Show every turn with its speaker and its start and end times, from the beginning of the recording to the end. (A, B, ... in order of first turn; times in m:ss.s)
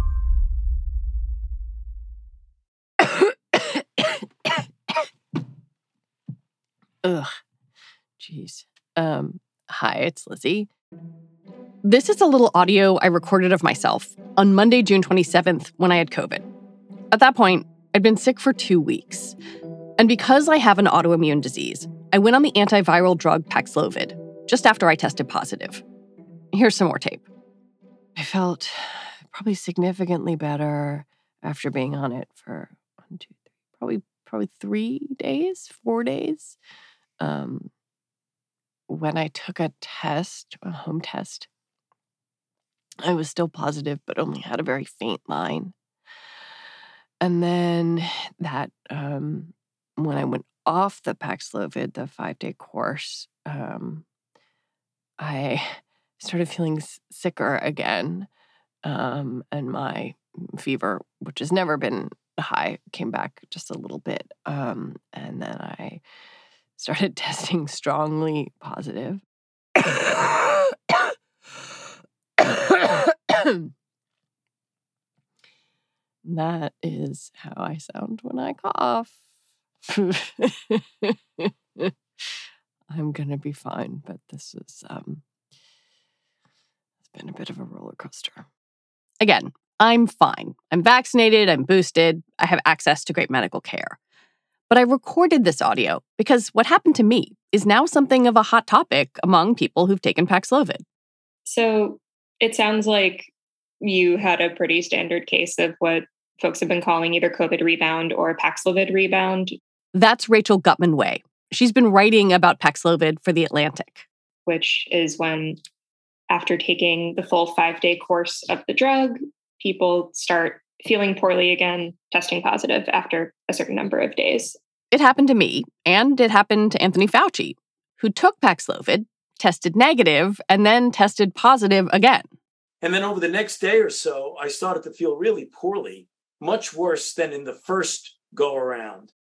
0:03.0-0:04.0 A
0:07.0-0:07.3 A
0:08.2-0:10.7 A
0:11.8-0:16.4 A
0:17.1-0:19.3 A
0:20.0-0:25.8 A
0:26.5-0:27.2 A
0:28.2-0:36.6 A
0:37.2-0:37.7 A
0:38.9-0:41.5 A
0:43.0-0:45.7 A
0:47.2-0:54.0 A
0:55.2-0:58.3 A
0:58.8-1:06.0 A
1:06.8-1:09.2 A
1:09.8-1:10.5 A
1:12.4-1:13.7 A
1:16.2-1:19.1 A
1:19.9-1:21.9 A
1:22.9-1:25.2 A
1:27.1-1:28.5 A
1:29.2-1:34.0 A
1:34.7-1:40.8 A
1:41.5-1:43.3 B
1:43.8-1:49.5 B
1:49.9-1:54.1 A
1:54.5-1:55.6 B
1:56.3-2:04.6 B
2:04.9-2:12.3 A
2:12.8-2:19.1 C